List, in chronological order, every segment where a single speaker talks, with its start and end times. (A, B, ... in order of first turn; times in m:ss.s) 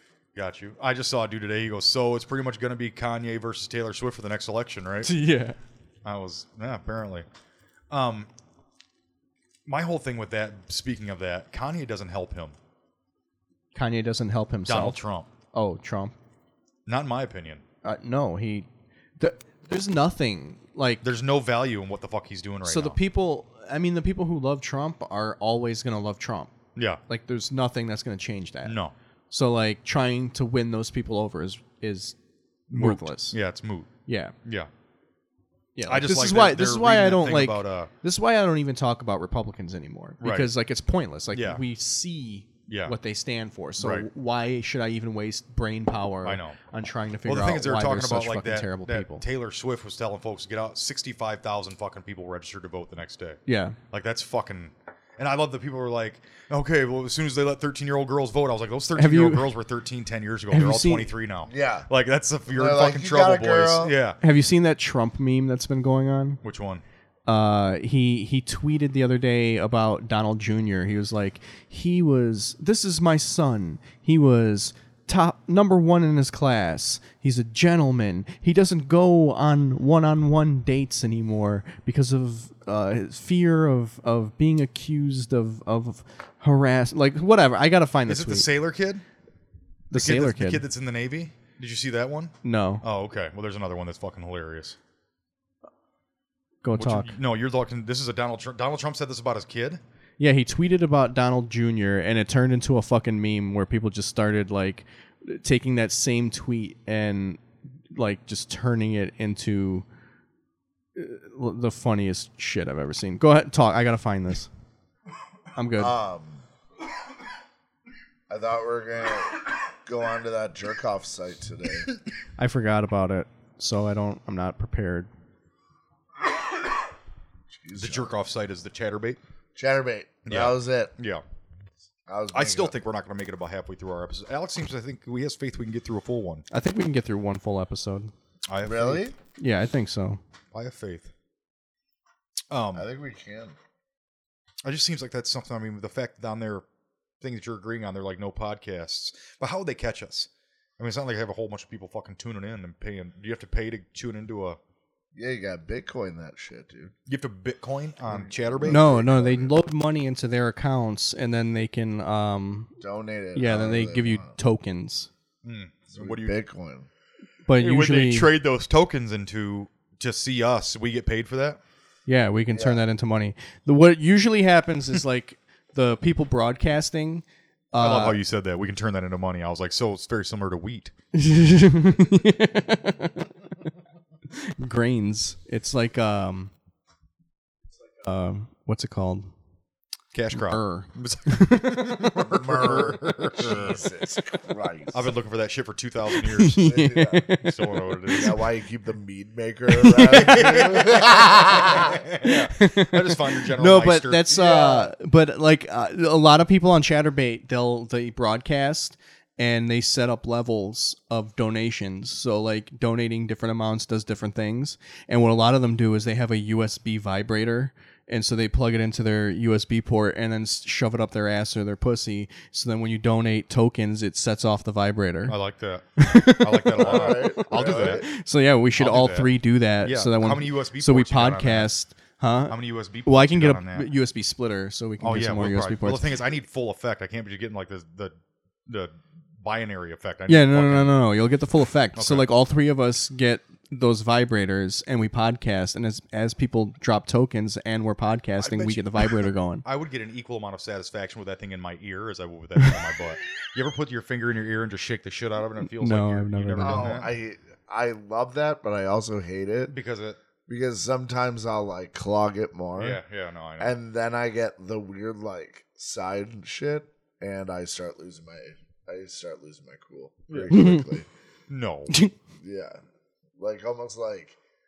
0:00.4-0:05.1 A
0:05.0-0:05.6 B
0:06.0-0:07.3 A
0:07.9-0:08.3 A
0:09.7-0:12.6 A
0:13.8-0:15.0 B
0:14.7-0:15.3 A
0:15.5-0:16.1 B
0:16.9-0:17.6 A
0:17.8-0:18.7 B
0:19.2-0:21.0 B
0:21.0-0:23.0 A
0:22.7-0:26.5 B
0:27.1-0:28.8 B
0:28.6-0:28.9 A
0:29.3-0:32.2 B
0:32.7-0:33.4 B
0:32.7-0:33.9 A
0:34.1-0:34.3 B
0:35.8-0:49.2 B
0:35.9-0:37.9 A
0:40.2-0:40.5 A
0:41.3-0:41.6 A
0:42.7-0:43.0 A
0:43.8-0:44.1 A
0:46.2-0:46.6 A
0:47.2-1:04.2 A
0:53.5-0:53.8 B
0:59.0-0:59.6 B
1:00.5-1:01.1 B
1:01.5-1:01.9 C
1:02.5-1:04.0 C
1:04.2-1:06.4 B
1:06.4-1:06.8 A
1:07.3-1:28.5 B
1:28.1-1:29.0 A
1:29.9-1:30.6 B
1:29.9-1:34.8 A
1:32.4-1:32.8 B
1:36.6-1:37.2 B
1:36.8-1:39.8 A
1:40.2-1:49.8 B
1:51.0-1:54.5 B
1:55.6-1:56.0 B
1:55.8-1:56.4 C
1:58.3-2:01.9 C
2:02.4-2:05.1 B
2:07.5-2:08.1 C
2:07.8-2:09.2 A
2:09.6-2:10.9 C
2:10.2-2:11.2 A
2:12.1-2:12.8 C
2:12.3-2:16.5 A
2:16.5-2:18.1 B
2:18.5-2:19.1 A
2:18.6-2:19.2 C
2:19.3-2:20.2 B
2:20.5-2:21.1 A
2:22.5-2:22.9 A
2:22.8-2:23.6 C
2:24.6-2:26.6 A
2:27.2-2:34.6 A
2:35.1-2:36.9 C
2:37.1-2:38.9 A
2:38.1-2:39.5 C
2:38.6-2:42.7 B
2:42.8-2:44.3 C
2:43.4-2:45.1 B
2:45.4-2:46.4 A
2:45.9-2:46.9 C
2:47.5-2:48.3 B
2:47.6-2:51.6 A
2:52.1-2:58.2 B
2:52.5-2:52.8 C
2:57.8-3:00.9 A
3:01.1-3:03.2 B
3:04.4-3:06.5 B
3:08.0-3:09.3 B
3:10.1-3:13.8 A
3:10.3-3:12.2 B
3:12.2-3:15.1 C
3:14.9-3:16.6 A
3:16.1-3:18.4 B
3:16.6-3:17.3 C
3:17.4-3:18.4 A
3:18.1-3:22.0 C
3:19.7-3:20.5 B
3:20.0-3:24.4 A
3:22.2-3:45.4 B
3:24.3-3:24.9 C
3:45.3-3:48.1 A
3:46.0-3:56.1 B
3:46.8-3:48.0 C
3:48.8-3:49.3 A
3:49.8-3:51.7 A
3:52.5-3:53.9 A
3:55.0-3:58.2 A
3:58.7-4:01.0 A
4:00.3-4:09.6 B
4:02.0-4:02.3 A
4:08.4-4:17.1 A
4:12.6-4:12.9 B
4:15.6-4:17.0 B
4:16.6-4:19.7 C
4:19.7-4:20.2 A
4:20.5-4:23.0 C
4:22.8-4:23.7 A
4:23.6-4:31.1 C
4:30.3-4:30.6 A
4:30.5-4:30.9 B
4:31.5-4:32.0 A
4:31.9-4:32.1 B
4:32.4-4:32.8 C
4:33.4-4:34.4 C